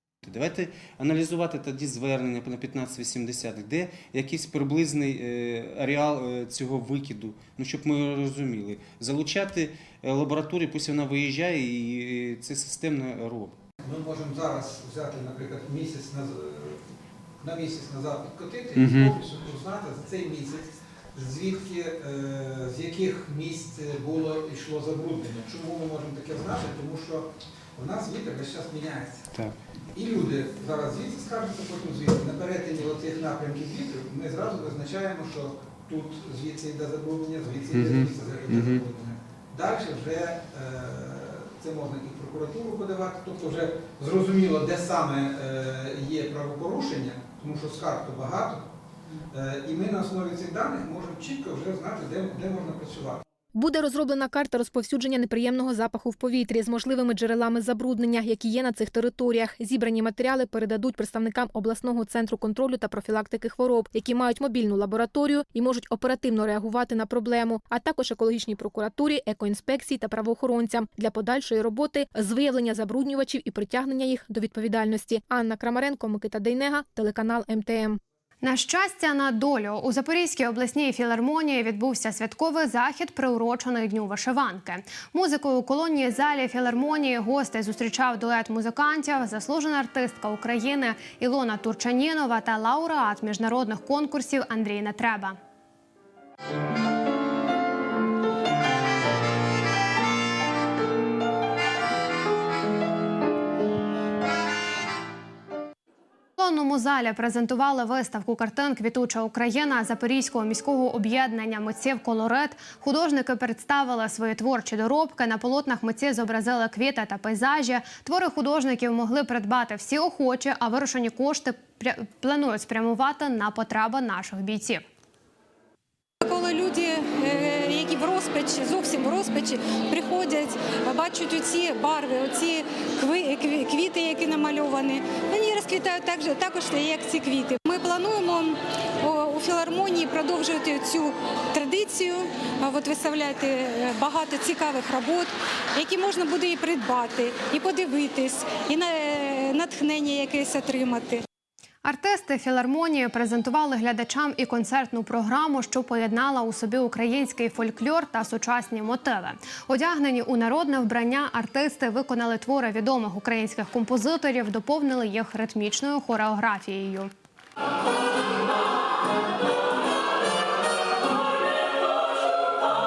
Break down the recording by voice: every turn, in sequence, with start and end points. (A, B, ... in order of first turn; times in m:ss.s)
0:00.2-0:13.6 A
0:13.8-0:16.8 B
0:17.4-0:29.3 B
0:18.8-0:19.2 A
0:30.0-0:48.6 B
0:37.7-0:38.8 A
0:49.3-0:53.2 B
0:53.6-1:18.0 C
1:18.4-1:35.4 D
1:46.4-2:04.8 D
2:06.2-2:31.2 E
2:31.8-2:47.1 D